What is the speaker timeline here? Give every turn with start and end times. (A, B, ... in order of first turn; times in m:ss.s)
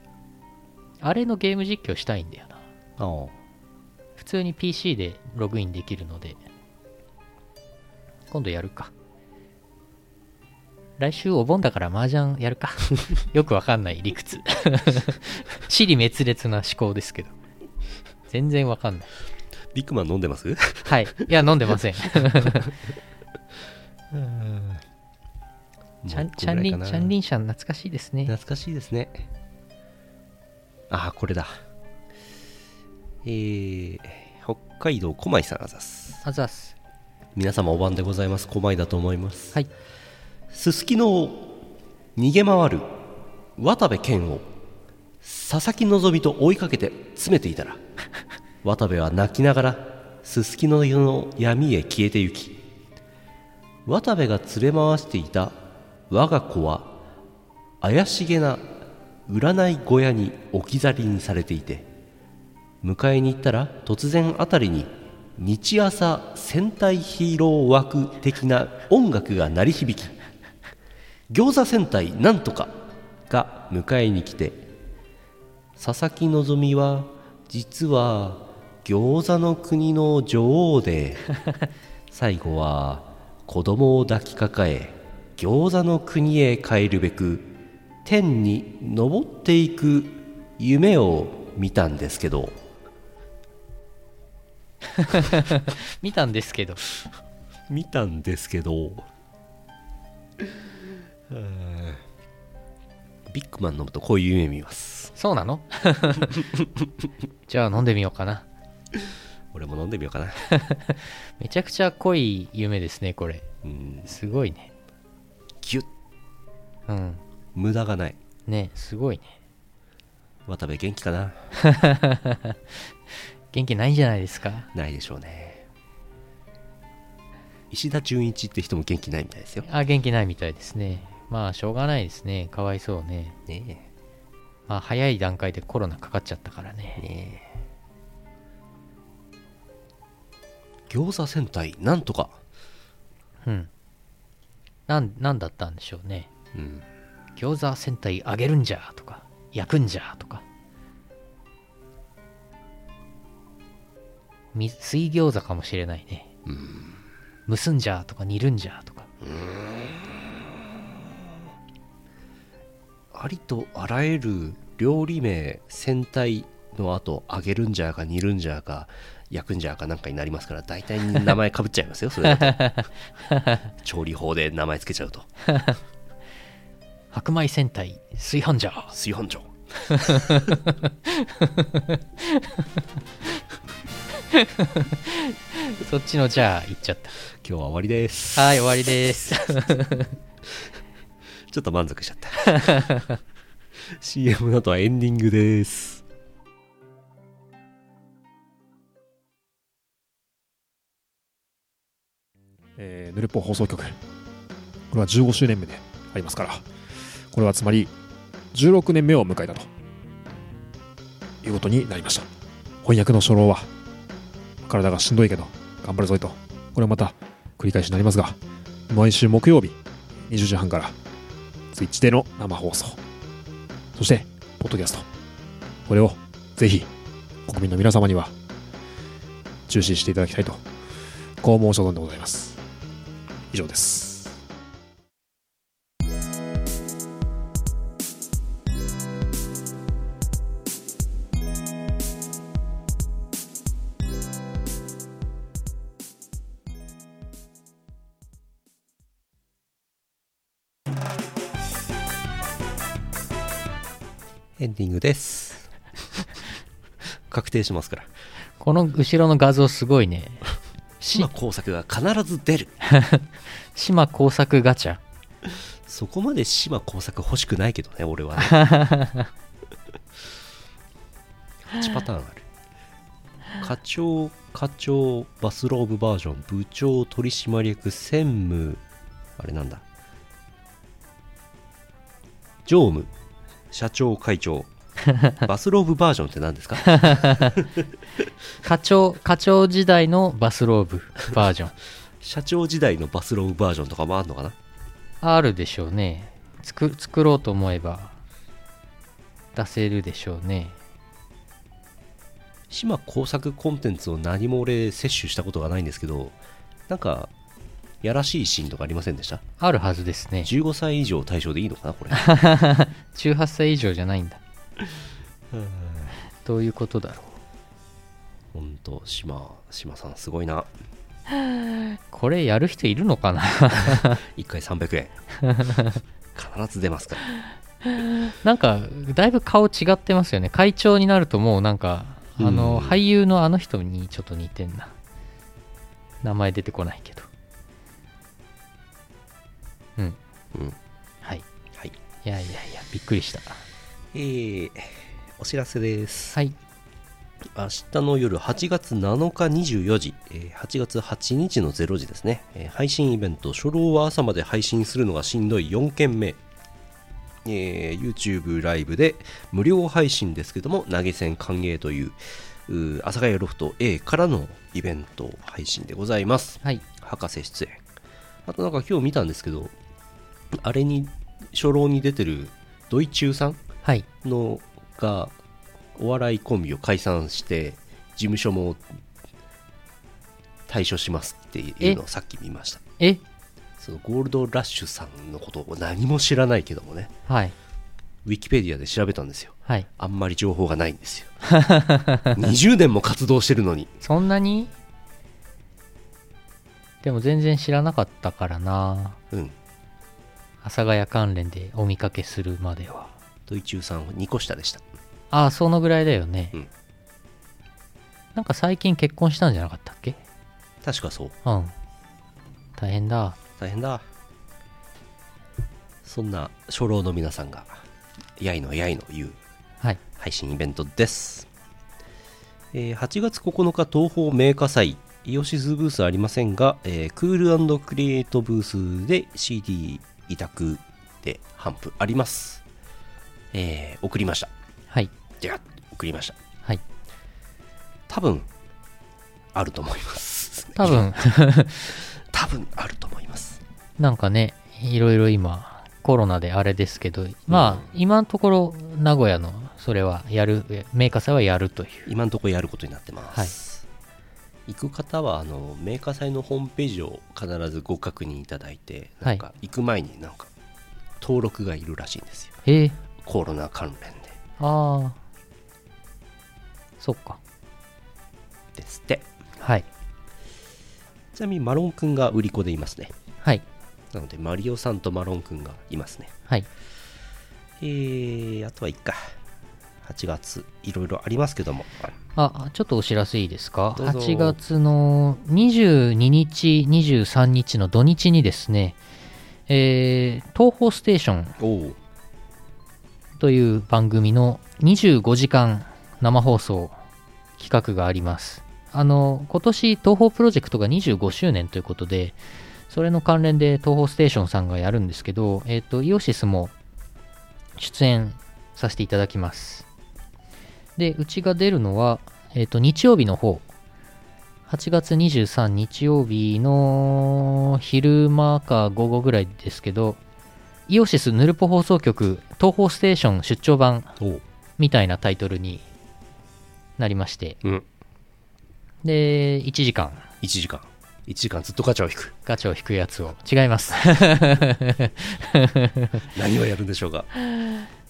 0:01.0-0:02.6 A
0:03.0-0:03.4 B
0:04.2-0:06.4 A
0:08.3-0:08.9 A
0:11.0-0:17.3 A
0:18.3-0:19.1 A
0:19.7-0:21.0 B
0:20.8-0:22.7 A
0:22.2-0:22.7 B
0:24.1-0:24.8 B
0:26.0-0:27.1 B
0:26.1-0:28.3 A
0:28.3-0:29.3 B
0:30.9-0:31.6 B
0:33.2-0:36.2 B
0:36.2-0:36.8 A
0:37.4-0:39.6 B
0:40.5-0:41.6 B
0:42.2-0:43.0 B
0:43.6-0:44.5 B
0:45.2-0:47.8 B
0:48.6-0:52.7 B
0:53.8-0:57.0 B
0:57.8-0:58.7 B
0:59.3-1:01.9 B
1:02.8-1:10.2 B
1:11.3-1:12.8 B
1:13.3-1:14.7 B
1:15.8-1:21.2 B
1:22.1-1:27.5 B
1:28.0-1:32.6 B
1:35.0-1:36.8 A
1:37.7-1:39.1 B
1:41.3-1:42.0 B
1:43.3-1:45.1 B
1:45.2-1:46.4 A
1:47.5-1:48.4 A
1:49.5-1:50.4 B
1:50.5-1:53.5 A
1:53.6-1:54.2 B
1:54.1-1:54.7 A
1:55.6-1:55.9 B
1:56.9-1:57.2 A
1:57.5-1:58.2 B
1:58.5-1:59.3 A
2:00.5-2:01.5 B
2:01.6-2:02.6 A
2:03.5-2:04.7 A
2:04.7-2:05.7 B
2:07.7-2:09.7 B
2:09.6-2:13.4 A
2:13.5-2:13.9 B
2:14.7-2:17.0 A
2:17.0-2:17.6 B
2:20.9-2:22.4 B
2:23.4-2:23.7 A
2:24.9-2:26.3 A
2:26.5-2:26.9 B
2:27.4-2:30.4 A
2:34.5-2:36.3 A
2:36.5-2:37.0 B
2:37.5-2:39.1 A
2:39.2-2:41.4 B
2:43.1-2:52.8 B
2:52.3-2:53.6 A
2:53.8-2:55.3 B
2:57.1-2:58.9 A
2:58.9-3:00.5 B
2:59.9-3:02.7 A
3:04.3-3:07.2 A
3:07.4-3:08.6 B
3:08.4-3:10.1 A
3:11.5-3:12.9 B
3:12.5-3:13.1 A
3:13.8-3:16.0 B
3:22.8-3:24.0 C
3:24.9-3:26.7 C
3:27.3-3:27.9 C
3:28.5-3:29.7 C
3:31.4-3:32.3 C
3:32.8-3:33.7 C
3:34.6-3:38.4 C
3:38.9-3:39.8 C
3:40.3-3:41.0 C
3:41.7-3:43.0 C
3:44.0-3:45.1 C
3:45.9-3:46.9 C
3:47.5-3:48.3 C
3:49.7-3:50.6 C
3:51.4-3:52.6 C
3:53.5-3:54.4 C
4:14.6-4:15.7 B
4:17.3-4:18.1 B
4:18.6-4:20.5 A
4:21.0-4:21.3 A
4:21.1-4:22.8 B
4:22.9-4:25.0 A
4:25.9-4:28.6 B
4:28.4-4:29.3 A
4:31.7-4:32.5 B
4:33.6-4:38.8 B
4:39.4-4:39.8 B
4:42.6-4:43.1 B
4:43.7-4:44.7 B
4:45.4-4:47.8 B
4:46.8-4:47.6 A
4:48.6-4:51.8 A
4:52.2-4:54.6 B
4:55.2-4:58.2 A
4:59.5-5:00.8 A
5:02.7-5:06.4 B
5:06.9-5:07.3 B
5:08.0-5:09.4 B
5:09.6-5:10.5 A
5:10.4-5:12.2 B
5:12.1-5:14.4 A
5:15.5-5:16.2 B
5:16.4-5:17.3 A
5:18.5-5:20.7 B
5:22.1-5:24.2 A
5:23.9-5:25.2 B
5:25.4-5:26.0 A
5:26.4-5:27.2 B
5:27.9-5:34.9 A
5:32.4-5:33.0 B
5:36.2-5:37.3 A
5:42.2-5:43.6 A
5:44.1-5:46.4 B
5:47.5-5:56.4 B
5:57.4-6:07.8 B
6:08.5-6:09.7 B
6:10.5-6:13.6 B
6:14.2-6:15.4 B
6:16.0-6:18.8 B
6:20.7-6:22.8 B
6:23.8-6:27.1 B
6:27.3-6:27.6 A
6:28.2-6:31.3 B
6:31.5-6:32.4 A
6:32.4-6:34.0 B
6:34.0-6:34.7 A
6:37.0-6:39.2 A
6:39.3-6:39.6 B
6:40.6-6:43.1 A
6:43.5-6:44.8 B
6:45.3-6:46.6 A
6:48.4-6:50.2 A
6:50.8-6:51.4 B
6:51.4-6:51.7 A
6:52.8-6:53.4 A
6:53.6-6:54.0 B
6:56.0-6:57.8 B
6:58.4-6:59.4 B
7:00.2-7:01.5 B
7:02.7-7:12.6 B
7:13.5-7:14.5 B
7:15.4-7:16.4 B
7:18.1-7:18.5 B
7:19.5-7:21.1 B
7:20.8-7:22.0 A
7:22.2-7:23.6 B
7:24.0-7:32.1 A
7:27.5-7:27.9 B
7:32.1-7:33.8 B
7:34.7-7:40.5 B
7:41.2-7:42.6 B
7:42.6-7:43.0 A
7:43.2-7:44.4 B
7:44.6-7:45.2 A
7:47.0-7:47.4 A
7:48.8-7:49.3 B
7:49.6-7:49.9 A
7:51.3-7:53.1 B
7:54.1-7:56.3 B
7:57.8-7:59.3 B
8:00.0-8:02.2 B
8:02.4-8:09.0 A
8:04.0-8:04.6 B
8:09.7-8:11.6 A
8:11.6-8:12.0 B
8:13.4-8:17.0 A
8:17.6-8:22.4 A
8:22.9-8:26.7 A
8:27.8-8:29.9 A
8:31.0-8:33.7 A
8:34.7-8:40.2 A
8:40.9-8:44.2 A
8:44.8-8:45.9 A
8:47.0-8:47.6 A
8:49.0-8:50.3 A
8:50.4-8:52.4 B
8:52.5-8:56.2 A
8:56.3-8:57.3 B
8:57.5-8:57.8 A